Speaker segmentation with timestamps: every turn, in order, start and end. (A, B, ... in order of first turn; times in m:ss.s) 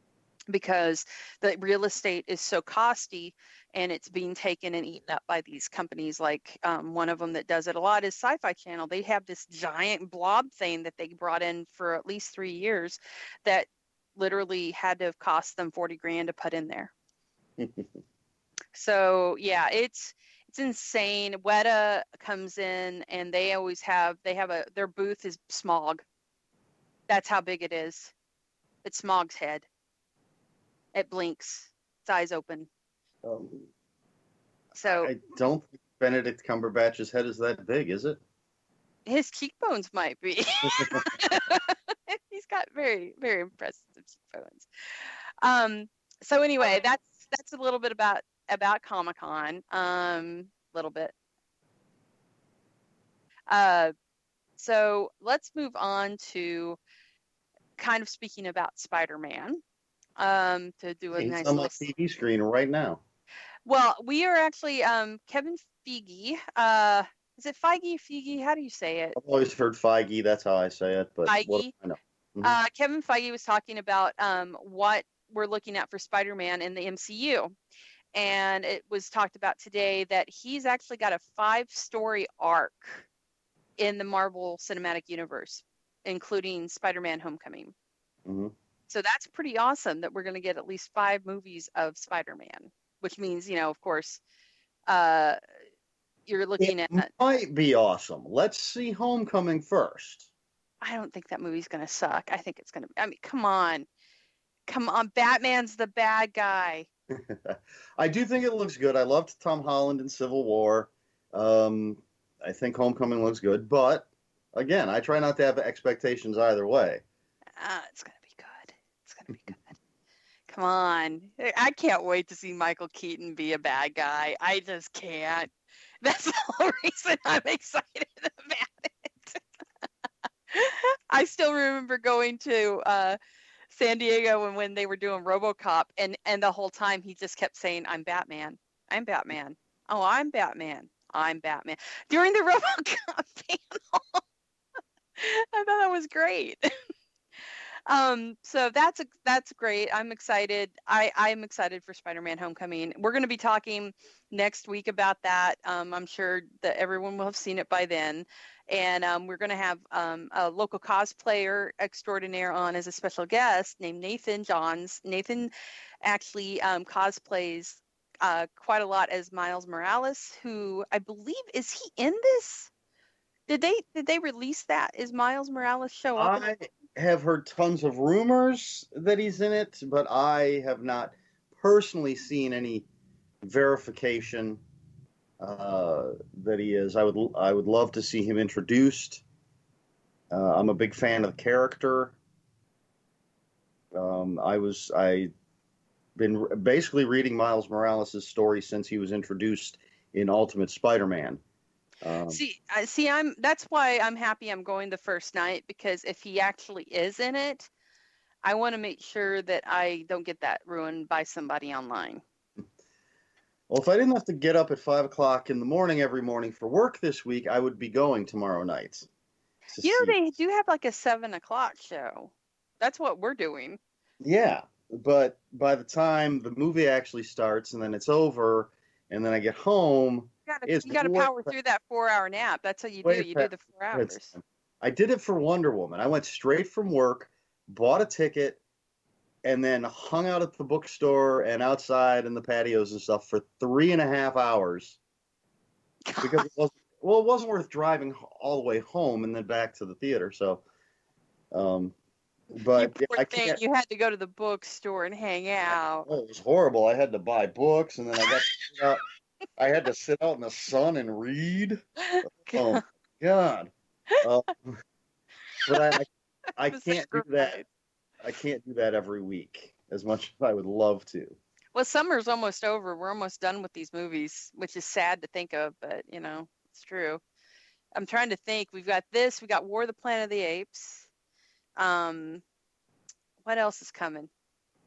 0:00.5-0:16.9 A
0:17.6-0:17.9 B
0:18.7-0:26.0 A
0:27.1-0:28.1 A
0:28.8-0:29.7 A
0:30.9-0:32.7 A
0:33.2-0:33.7 B
0:34.8-0:35.1 A
0:34.8-0:38.2 B
0:39.1-0:44.7 A
0:40.7-0:41.1 B
0:45.4-0:51.1 A
0:53.5-0:53.9 A
0:54.6-0:56.8 A
0:57.8-0:59.6 A
1:00.2-1:01.9 A
1:01.2-1:03.0 B
1:03.6-1:09.2 A
1:09.2-1:12.6 B
1:11.3-1:11.7 A
1:12.4-1:17.5 A
1:18.2-1:23.1 A
1:23.8-1:27.7 A
1:28.3-1:28.5 B
1:28.9-1:34.2 A
1:34.9-1:35.4 A
1:36.3-1:37.1 A
1:36.6-1:40.3 B
1:40.8-1:43.9 A
1:44.7-1:46.9 A
1:47.1-1:57.0 B
1:57.6-1:59.8 A
2:00.5-2:05.5 A
2:06.0-2:09.4 A
2:10.5-2:13.2 A
2:13.7-2:24.2 A
2:25.2-2:26.6 A
2:27.9-2:45.5 A
2:46.0-2:52.7 A
2:53.5-2:56.5 A
2:56.2-3:02.9 B
3:03.4-3:04.6 B
3:05.4-3:09.2 B
3:10.3-3:12.2 B
3:13.9-3:15.3 B
3:16.2-3:21.4 B
3:22.0-3:22.4 B
3:22.3-3:27.7 A
3:28.4-3:32.2 A
3:33.7-3:39.1 B
3:39.7-3:40.2 B
3:39.8-3:43.8 A
3:44.2-3:51.5 B
3:50.5-3:54.4 A
3:53.0-3:58.6 B
3:59.4-4:05.0 B
4:06.1-4:06.5 A
4:06.2-4:10.6 B
4:11.5-4:11.9 B
4:12.5-4:13.6 B
4:12.8-4:16.1 A
4:15.7-4:19.0 B
4:19.6-4:24.8 B
4:22.0-4:22.8 A
4:25.6-4:27.6 B
4:25.7-4:26.0 A
4:26.7-4:27.6 A
4:28.2-4:31.4 B
4:31.8-4:37.2 A
4:38.0-4:41.1 A
4:41.8-4:42.4 A
4:43.4-4:44.3 A